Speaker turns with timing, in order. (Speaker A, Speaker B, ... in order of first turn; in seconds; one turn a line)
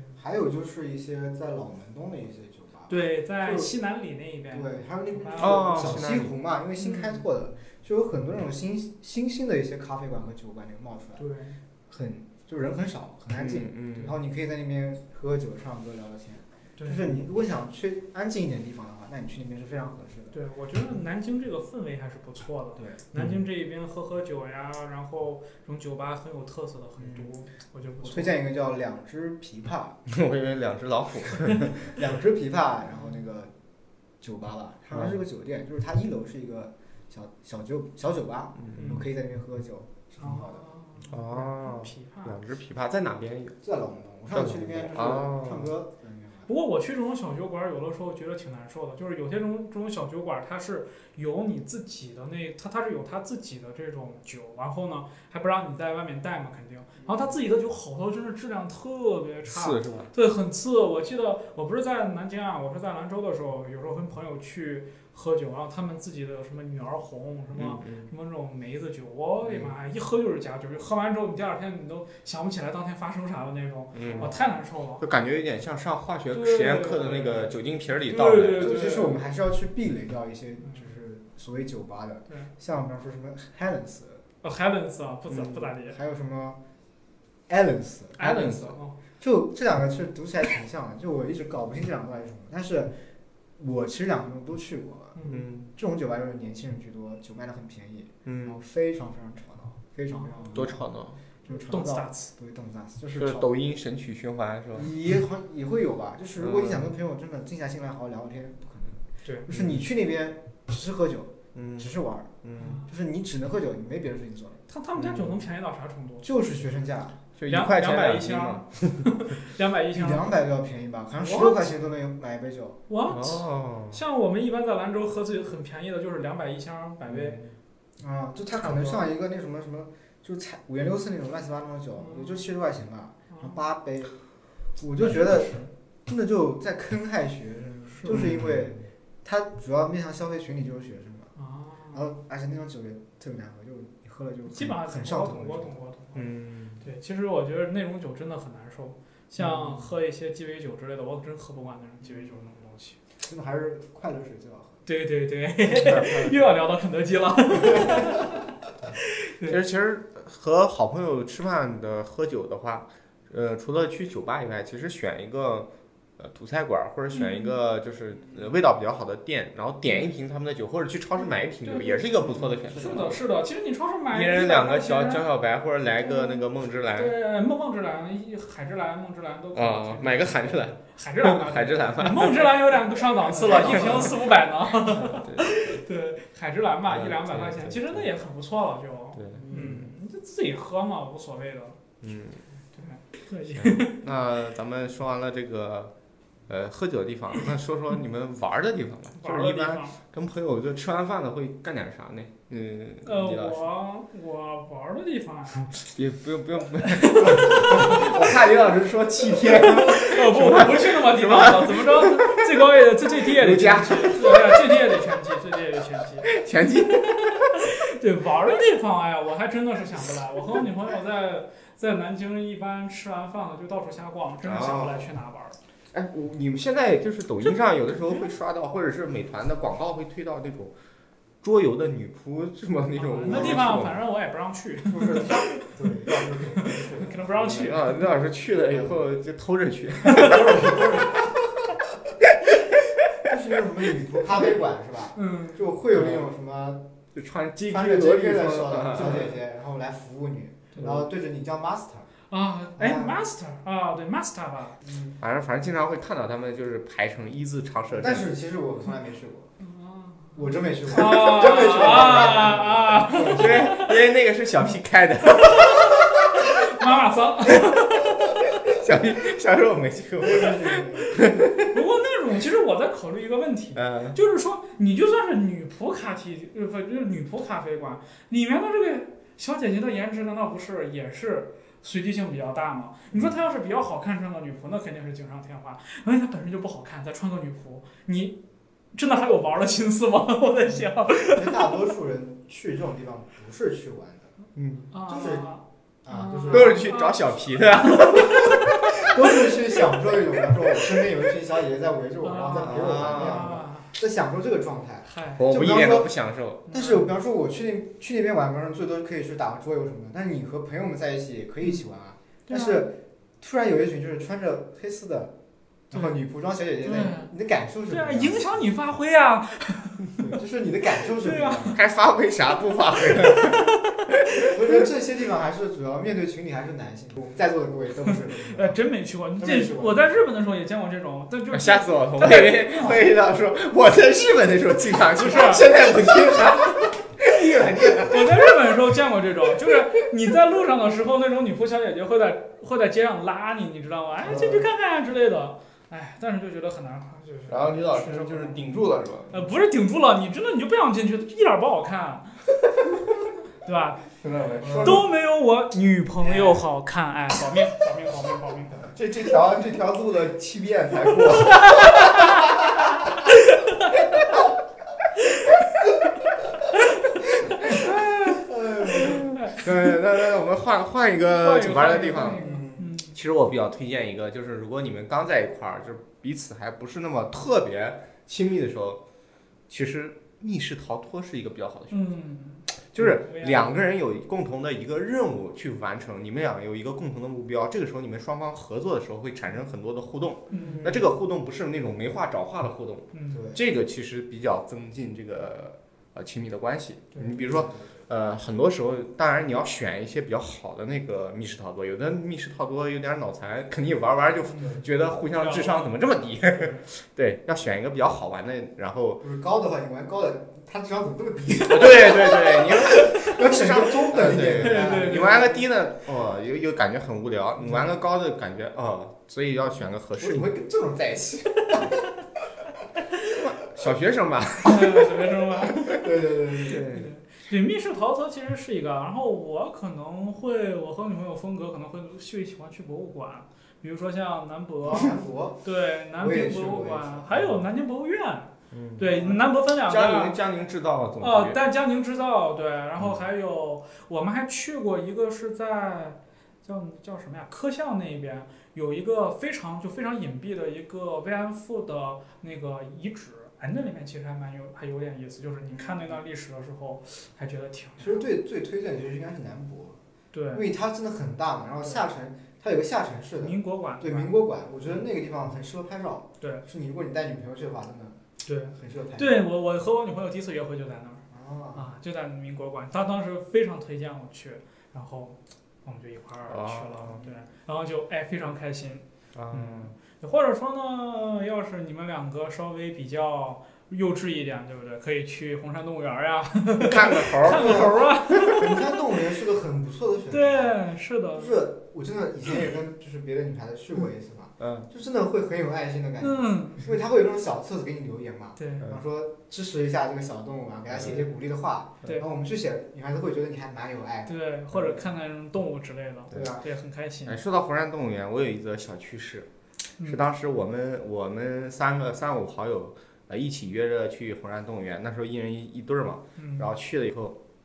Speaker A: 0.2-3.7
Speaker B: 2.9-5.9
Speaker A: 4.5-11.2
Speaker C: 5.3-6.3
Speaker B: 6.8-7.2
Speaker B: 11.2-11.6
Speaker A: 11.9-20.3
Speaker C: 13.3-14.2
Speaker B: 16.8-17.1
Speaker B: 20.3-28.4
Speaker C: 23.1-23.4
Speaker A: 27.0-27.3
Speaker A: 28.0-30.0
Speaker C: 30.1-31.9
Speaker A: 31.9-33.5
Speaker A: 34.2-40.6
Speaker C: 34.9-35.2
Speaker C: 38.6-39.0
Speaker B: 38.7-39.1
Speaker B: 40.2-42.4
Speaker C: 41.1-43.6
Speaker A: 43.6-46.5
Speaker C: 44.3-45.7
Speaker B: 46.5-75.0
Speaker A: 57.0-57.3
Speaker C: 59.5-60.1
Speaker C: 67.5-68.1
Speaker C: 73.9-74.3
Speaker C: 75.0-78.8
Speaker B: 76.3-77.5
Speaker B: 78.1-79.2
Speaker A: 78.6-84.2
Speaker B: 84.4-86.0
Speaker A: 85.4-86.6
Speaker A: 87.5-88.2
Speaker B: 88.2-89.0
Speaker C: 88.2-88.7
Speaker A: 89.2-93.0
Speaker A: 93.6-100.8
Speaker B: 95.1-95.4
Speaker C: 95.3-95.7
Speaker C: 98.2-98.6
Speaker B: 100.1-100.7
Speaker C: 100.5-101.2
Speaker A: 101.4-103.5
Speaker B: 101.6-102.3
Speaker C: 103.2-104.9
Speaker A: 104.7-114.6
Speaker C: 106.4-106.9
Speaker C: 109.5-109.8
Speaker C: 111.5-112.8
Speaker B: 114.7-116.2
Speaker C: 115.0-115.3
Speaker A: 116.2-117.2
Speaker C: 117.4-119.1
Speaker B: 117.5-120.3
Speaker A: 119.9-122.8
Speaker B: 121.2-121.7
Speaker B: 122.9-127.4
Speaker C: 123.1-124.0
Speaker C: 127.1-127.5
Speaker A: 128.0-134.1
Speaker B: 128.6-129.0
Speaker B: 132.0-132.4
Speaker B: 133.3-133.6
Speaker A: 134.8-141.3
Speaker B: 135.0-135.7
Speaker B: 137.9-138.2
Speaker C: 138.1-138.8
Speaker B: 141.4-142.0
Speaker A: 141.9-145.7
Speaker B: 144.5-146.2
Speaker C: 146.1-146.8
Speaker B: 146.8-153.0
Speaker A: 153.2-154.8
Speaker B: 154.8-158.5
Speaker C: 155.7-156.4
Speaker B: 159.0-159.6
Speaker C: 159.4-173.2
Speaker B: 167.1-167.5
Speaker B: 171.6-175.2
Speaker A: 172.2-173.1
Speaker C: 174.1-177.1
Speaker B: 176.0-176.4
Speaker B: 176.9-191.8
Speaker C: 179.5-184.2
Speaker A: 183.3-184.1
Speaker C: 184.8-185.8
Speaker C: 186.9-188.1
Speaker C: 189.2-189.9
Speaker A: 189.5-189.8
Speaker C: 192.0-192.4
Speaker B: 192.7-194.0
Speaker C: 193.5-195.9
Speaker C: 196.5-203.7
Speaker B: 199.2-199.9
Speaker B: 203.0-205.7
Speaker C: 205.7-212.7
Speaker B: 206.9-208.1
Speaker B: 209.6-216.3
Speaker C: 213.2-214.6
Speaker C: 216.2-217.6
Speaker B: 216.9-225.6
Speaker C: 224.4-225.1
Speaker C: 225.9-230.7
Speaker C: 231.4-234.0
Speaker B: 233.0-235.6
Speaker A: 233.2-233.7
Speaker A: 234.9-237.4
Speaker B: 236.4-238.1
Speaker C: 237.4-241.3
Speaker A: 238.7-238.9
Speaker A: 240.0-241.3
Speaker A: 243.2-246.9
Speaker B: 245.1-245.6
Speaker C: 245.9-246.3
Speaker C: 247.1-249.3
Speaker A: 247.7-252.1
Speaker B: 252.3-254.8
Speaker A: 252.8-253.2
Speaker A: 254.8-255.1
Speaker C: 255.2-258.3
Speaker A: 257.9-259.5
Speaker B: 259.6-264.0
Speaker A: 260.3-263.7
Speaker C: 261.8-262.3
Speaker C: 263.1-266.2
Speaker B: 265.4-268.4
Speaker C: 268.6-271.7
Speaker A: 270.2-271.3
Speaker B: 271.7-288.4
Speaker C: 273.8-274.2
Speaker B: 288.9-291.8
Speaker A: 291.3-294.3
Speaker C: 294.5-294.9
Speaker B: 294.9-298.7
Speaker A: 295.0-295.5
Speaker A: 296.0-296.8
Speaker C: 296.5-299.1
Speaker A: 299.0-306.1
Speaker B: 302.2-303.9
Speaker C: 302.6-303.6
Speaker B: 305.1-305.4
Speaker C: 305.4-306.6
Speaker B: 306.7-307.1
Speaker A: 306.7-315.3
Speaker B: 312.5-312.9
Speaker A: 315.9-318.6
Speaker B: 316.8-317.3
Speaker B: 317.9-320.2
Speaker A: 320.2-321.8
Speaker B: 321.2-321.8
Speaker C: 321.7-324.8
Speaker B: 323.1-324.0
Speaker A: 324.4-328.8
Speaker B: 328.5-333.1
Speaker A: 329.4-330.1
Speaker C: 331.5-338.6
Speaker B: 335.1-335.7
Speaker B: 337.4-352.4
Speaker C: 344.3-344.6
Speaker C: 347.5-349.3
Speaker B: 353.6-354.0
Speaker C: 354.2-355.1
Speaker A: 354.6-355.0
Speaker B: 354.8-358.8
Speaker C: 358.9-362.4
Speaker B: 361.5-362.4
Speaker B: 363.3-364.2
Speaker C: 367.6-379.0
Speaker A: 368.4-369.2
Speaker B: 371.3-373.2
Speaker A: 372.3-372.9
Speaker C: 379.7-382.1
Speaker B: 381.9-383.8
Speaker C: 382.9-409.2
Speaker B: 390.5-390.9
Speaker A: 390.6-391.1
Speaker B: 393.1-393.5
Speaker A: 393.3-393.6
Speaker A: 397.3-397.9
Speaker B: 404.5-406.8
Speaker A: 409.2-415.5
Speaker C: 411.6-420.5
Speaker B: 414.6-415.6
Speaker A: 420.2-422.0
Speaker C: 423.3-425.9
Speaker B: 424.6-426.0
Speaker A: 425.8-426.9
Speaker C: 426.6-427.1
Speaker B: 426.9-440.4
Speaker A: 434.8-435.6
Speaker A: 436.2-437.5
Speaker C: 438.7-441.6
Speaker B: 441.2-458.2
Speaker A: 455.7-456.2
Speaker A: 458.0-460.0
Speaker B: 460.3-460.6
Speaker A: 460.5-468.2
Speaker B: 463.4-464.3
Speaker B: 468.4-471.2
Speaker A: 468.7-469.4
Speaker A: 471.3-471.9
Speaker B: 471.7-488.8
Speaker C: 476.5-477.2
Speaker C: 479.3-479.9
Speaker C: 486.8-488.6
Speaker A: 487.5-490.8
Speaker B: 490.3-491.5
Speaker A: 491.3-504.3
Speaker C: 494.6-494.9
Speaker B: 496.2-496.8
Speaker B: 498.6-498.9
Speaker B: 504.3-507.4
Speaker A: 506.3-506.7
Speaker C: 507.2-509.5
Speaker C: 510.0-517.4
Speaker B: 516.4-516.7